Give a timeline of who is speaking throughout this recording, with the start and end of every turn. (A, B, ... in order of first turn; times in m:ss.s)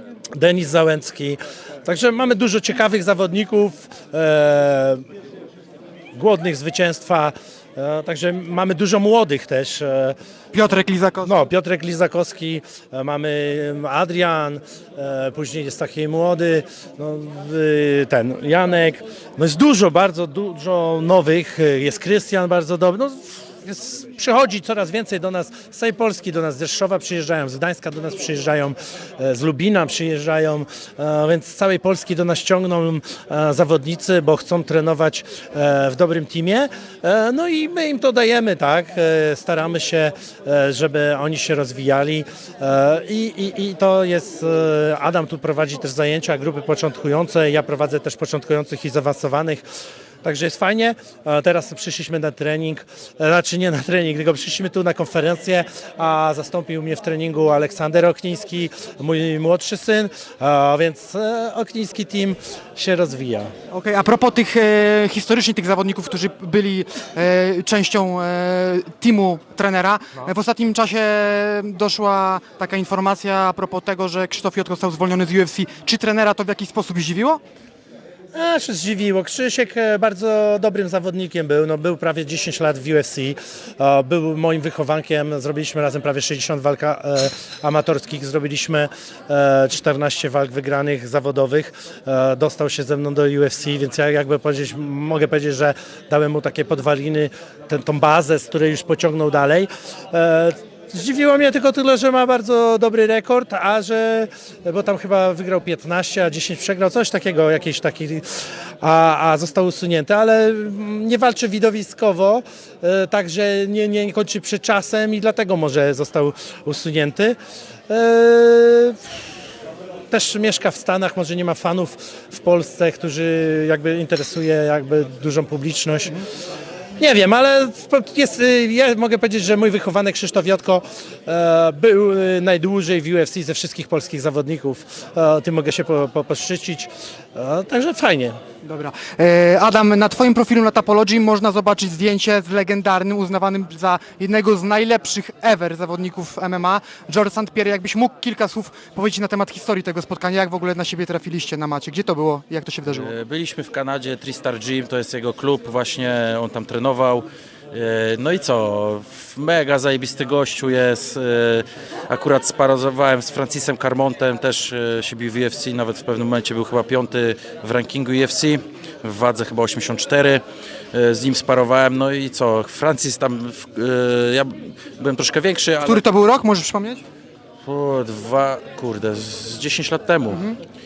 0:00.3-0:05.0 A
0:06.1-0:10.2 A
0:10.5-0:11.3 B
0:11.2-0:49.6 A
0:50.2-1:03.5 A
1:03.7-1:17.4 B
1:18.3-1:57.4 A
1:57.9-1:59.1 A
2:00.1-2:06.2 A
2:07.0-2:18.4 A
2:18.6-2:33.1 B
2:32.9-2:50.4 C
2:50.9-2:56.0 C
2:55.8-2:57.0 B
2:57.6-3:00.4 C
3:00.3-3:00.6 B